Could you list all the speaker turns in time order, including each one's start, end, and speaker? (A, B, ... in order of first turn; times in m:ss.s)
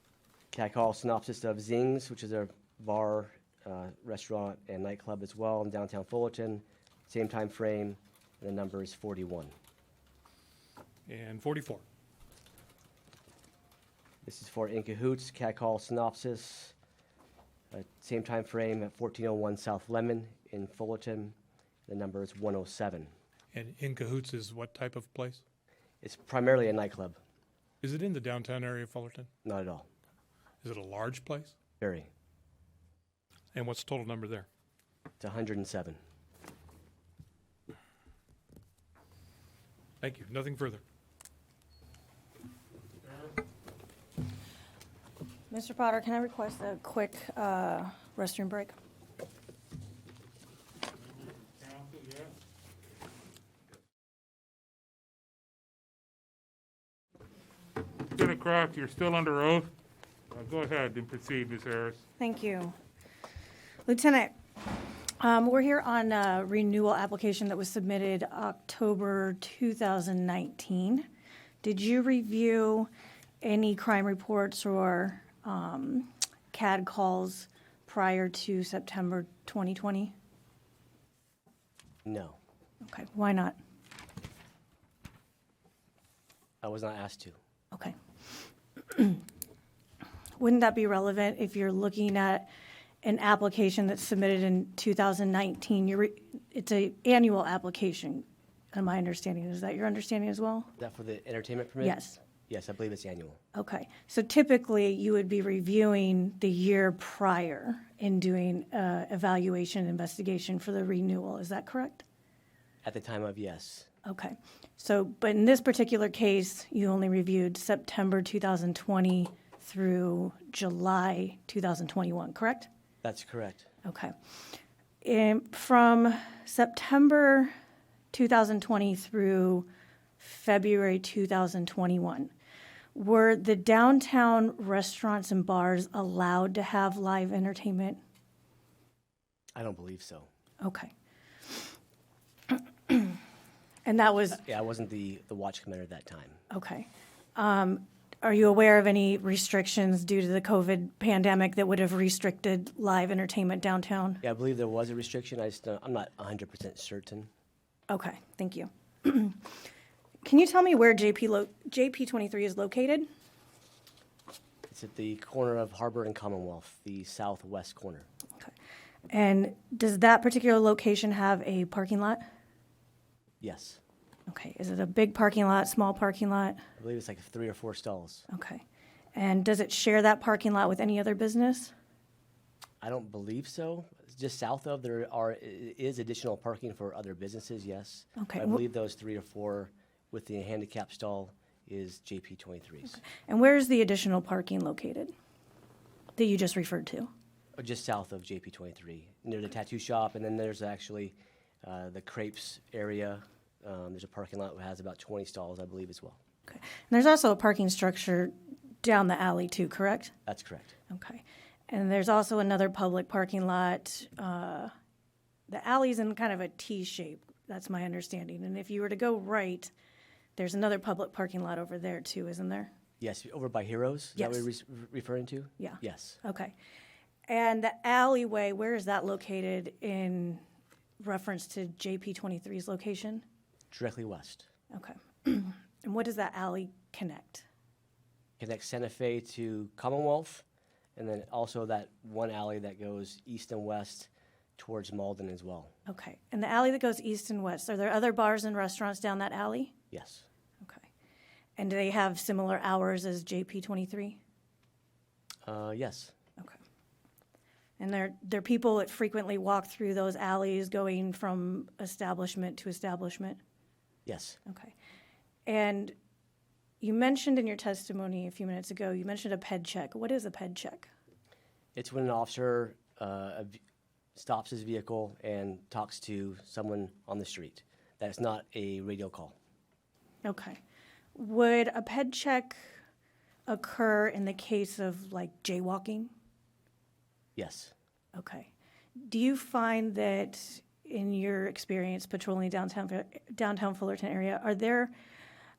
0:00.5-0:09.5 A
0:11.1-0:11.8 B
0:14.2-0:16.8 A
0:17.7-0:21.4 A
0:21.9-0:23.1 A
0:23.5-0:25.4 B
0:26.0-0:27.2 A
0:27.8-0:29.3 B
0:29.4-0:29.9 A
0:30.6-0:31.6 B
0:31.8-0:32.1 A
0:33.5-0:34.5 B
0:35.2-0:36.0 A
0:40.0-0:40.8 B
0:45.5-0:48.7 C
0:51.2-0:52.3 D
0:58.0-0:59.7 D
1:00.3-1:02.0 D
1:02.2-1:02.8 C
1:03.9-1:04.3 C
1:05.2-1:11.1 C
1:11.6-1:12.9 C
1:13.4-1:20.1 C
1:22.1-1:22.4 A
1:22.8-1:23.6 C
1:26.6-1:27.4 A
1:28.9-1:29.2 C
1:30.4-1:32.5 C
1:33.0-1:40.7 C
1:40.8-1:43.4 A
1:41.8-1:42.2 C
1:43.6-1:52.0 C
1:52.8-1:53.9 A
1:54.0-2:02.7 C
2:03.0-2:03.7 A
2:03.8-2:04.1 C
2:05.0-2:07.5 C
2:08.1-2:09.7 C
2:10.2-2:12.3 C
2:12.9-2:18.0 C
2:19.6-2:20.3 A
2:20.6-2:20.9 C
2:22.5-2:23.2 C
2:23.8-2:24.4 C
2:24.3-2:26.4 A
2:26.5-2:34.2 C
2:34.2-2:37.3 A
2:37.9-2:39.6 C
2:40.2-2:43.1 C
2:44.7-2:48.1 A
2:49.1-2:52.2 C
2:53.4-2:53.8 A
2:54.3-2:56.6 C
2:56.8-2:58.3 A
2:58.3-2:58.6 C
2:59.2-3:01.7 C
3:02.8-3:13.0 A
3:08.2-3:08.6 C
3:13.1-3:15.1 C
3:16.2-3:17.1 C
3:17.6-3:26.2 A
3:26.5-3:30.1 C
3:30.3-3:30.8 A
3:30.9-3:34.7 C
3:35.5-3:39.7 C
3:40.4-3:42.7 C
3:43.0-3:46.2 A
3:44.2-3:44.5 C
3:45.6-3:46.5 C
3:47.3-3:50.4 C
3:51.0-3:53.2 C
3:53.7-3:54.5 A
3:54.7-3:57.5 C
3:58.4-4:00.4 A
4:01.0-4:05.7 A
4:05.9-4:09.7 C
4:09.9-4:10.3 A
4:10.6-4:10.9 C
4:11.6-4:14.2 C
4:15.4-4:16.1 A
4:17.8-4:23.4 C
4:24.1-4:24.4 A
4:24.5-4:24.7 C
4:25.5-4:26.0 C
4:26.8-4:30.9 C
4:31.8-4:33.6 A
4:34.2-4:39.4 A
4:40.2-4:40.6 C
4:41.2-4:42.8 C
4:43.5-4:46.1 C
4:47.4-4:47.7 A
4:48.2-4:48.5 C
4:49.0-4:54.9 C